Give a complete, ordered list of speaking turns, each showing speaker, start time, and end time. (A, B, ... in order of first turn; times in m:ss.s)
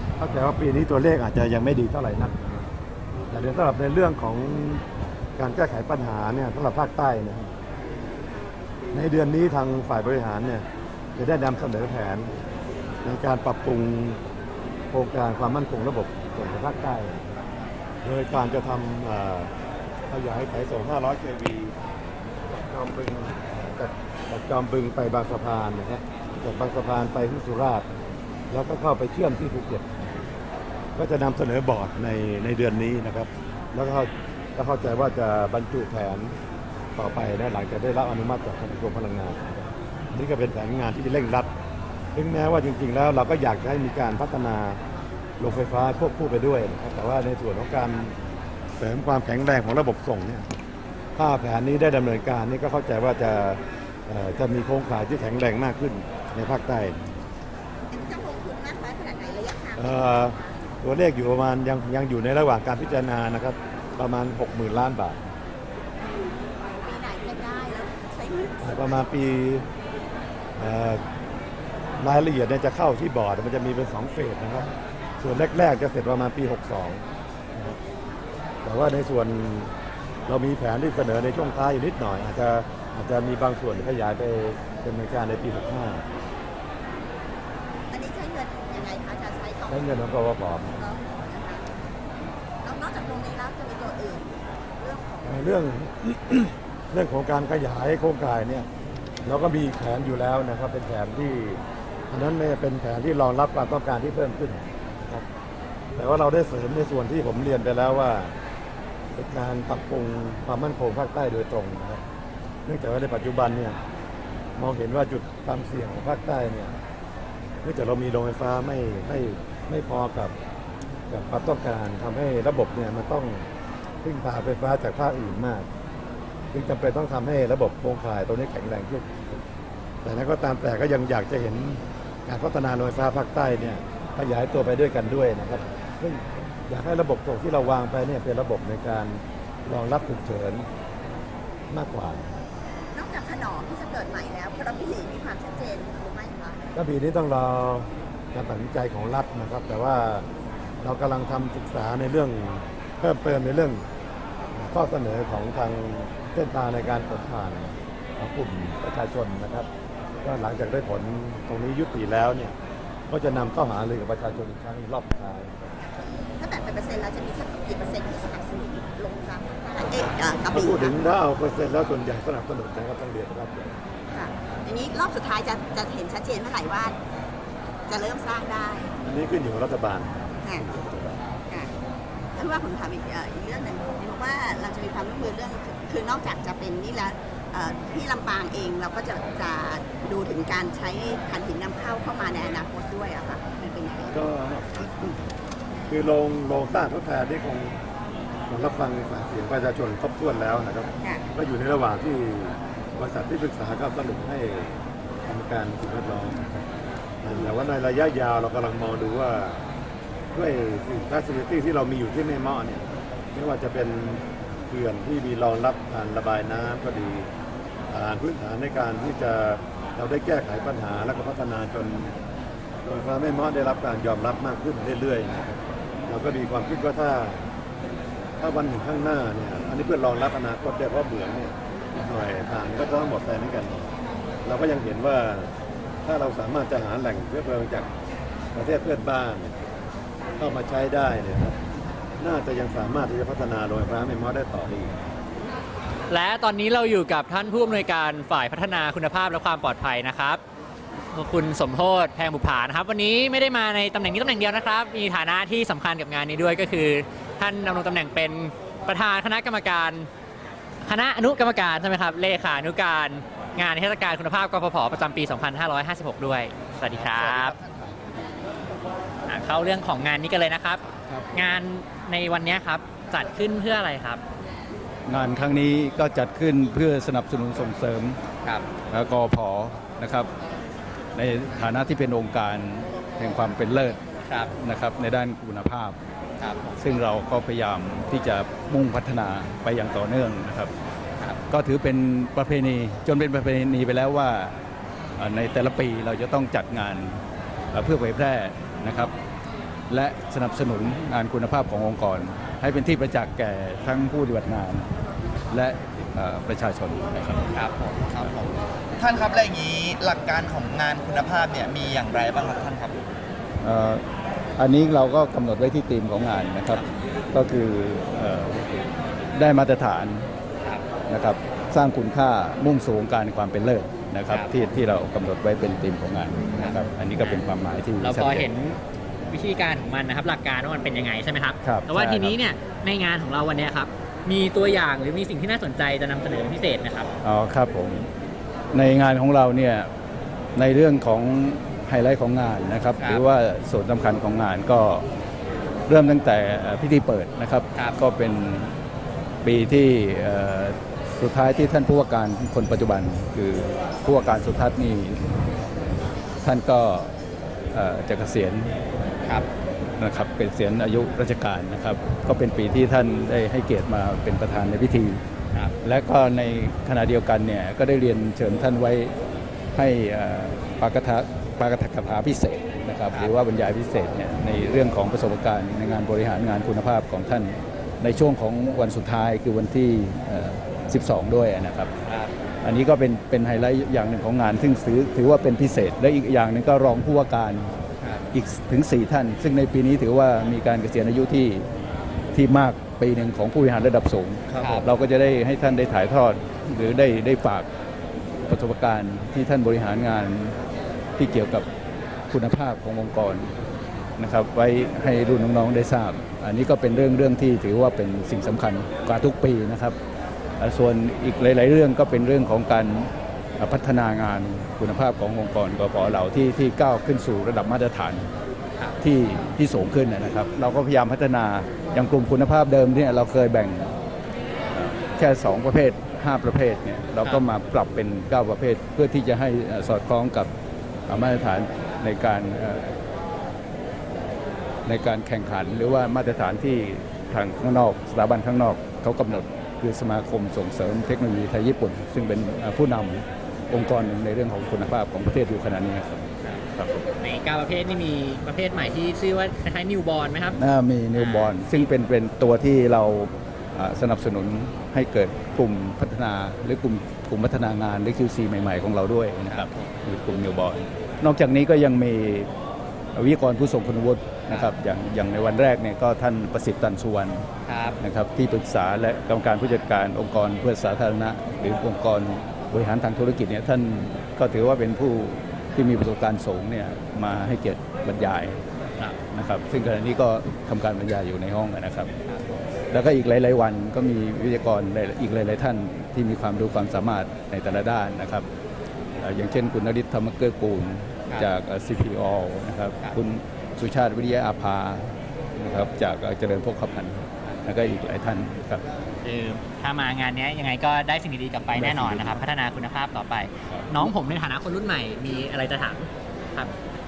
0:00.2-0:02.7 A
0:03.3-0:04.8 A
0:05.4-0:07.5 A
0:08.9-0:12.3 A
0:13.0-0:14.2 A
0:14.9-0:17.2 A
0:18.0-0:19.5 A
0:20.1-0:21.8 A
0:22.5-0:27.9 A
0:28.5-0:29.9 A
0:31.0-0:36.4 A
0:37.0-0:41.5 A
0:42.1-0:44.8 A
0:45.4-0:48.2 A
0:48.8-0:50.5 A
0:51.2-0:57.0 A
0:57.9-1:00.4 B
0:59.8-1:05.2 A
1:06.0-1:09.0 B
1:08.6-1:09.7 A
1:10.6-1:11.0 A
1:12.0-1:17.0 A
1:18.6-1:19.7 A
1:20.3-1:26.0 A
1:27.9-1:30.0 B
1:29.7-1:30.8 A
1:30.8-1:31.7 B
1:32.6-1:35.6 B
1:35.3-1:38.7 A
1:39.2-1:45.3 A
1:46.0-1:48.4 A
1:49.2-1:52.0 A
1:52.7-1:53.8 A
1:54.6-1:56.8 A
1:57.6-2:00.3 A
2:01.1-2:03.5 A
2:04.0-2:05.7 A
2:06.5-2:09.4 A
2:10.0-2:20.7 A
2:21.7-2:22.3 A
2:22.9-2:26.6 B
2:26.7-2:30.3 A
2:30.8-2:33.9 A
2:34.5-2:39.7 A
2:40.2-2:42.6 A
2:43.1-2:45.8 A
2:46.4-2:51.0 B
2:50.5-2:53.8 A
2:54.1-2:57.0 B
2:57.9-2:58.9 B
2:59.0-3:01.2 A
3:02.4-3:14.2 B
3:14.1-3:15.2 A
3:15.9-3:17.8 A
3:18.5-3:26.6 A
3:27.2-3:29.6 A
3:30.3-3:37.3 A
3:37.9-3:42.2 A
3:42.8-3:47.5 A
3:48.4-3:55.5 A
3:56.0-3:57.9 A
3:58.5-3:59.6 A
4:00.4-4:01.6 A
4:02.2-4:05.0 A
4:06.1-4:10.4 C
4:11.1-4:20.1 C
4:20.8-4:27.6 C
4:27.0-4:27.8 D
4:29.3-4:30.8 C
4:31.0-4:31.4 E
4:31.3-4:34.2 C
4:35.1-4:38.2 E
4:38.9-4:40.3 E
4:41.2-4:46.0 E
4:44.3-4:44.5 C
4:46.4-4:46.8 C
4:46.8-4:50.7 E
4:51.5-4:54.6 E
4:55.2-4:57.2 E
4:57.7-4:59.1 E
4:59.9-5:04.9 E
5:05.5-5:07.4 E
5:07.5-5:13.0 D
5:13.6-5:14.0 E
5:14.6-5:18.8 E
5:19.3-5:20.3 E
5:21.1-5:28.5 E
5:26.4-5:27.4 C
5:28.0-5:37.1 C
5:31.6-5:32.4 E
5:37.2-5:38.1 E
5:38.7-5:39.9 E
5:40.6-5:45.1 E
5:43.0-5:43.2 C
5:45.9-5:48.8 E
5:49.4-5:55.2 E
5:56.4-5:57.1 E
5:57.7-5:58.8 E
6:00.0-6:05.2 E
6:05.8-6:09.1 E
6:09.7-6:21.9 E
6:22.0-6:22.3 C
6:22.6-6:27.7 E
6:28.0-6:28.3 C
6:28.3-6:31.7 E
6:32.3-6:37.7 E
6:34.6-6:34.9 C
6:38.4-6:40.6 E
6:41.2-6:41.7 E
6:42.3-6:43.5 E
6:44.2-6:50.0 E
6:50.6-6:58.3 E
6:59.0-7:03.9 E
7:04.7-7:10.5 E
7:11.1-7:13.0 E
7:14.8-7:27.1 E
7:27.2-7:30.6 C
7:30.6-7:42.5 E
7:31.1-7:31.8 C
7:39.5-7:39.9 C
7:43.2-7:47.4 E
7:47.7-7:48.0 C
7:48.0-7:58.6 E
7:59.3-8:02.1 E
8:02.3-8:02.6 C
8:02.9-8:08.5 E
8:09.2-8:18.8 E
8:19.2-8:26.7 C
8:21.7-8:22.4 E
8:23.7-8:24.1 E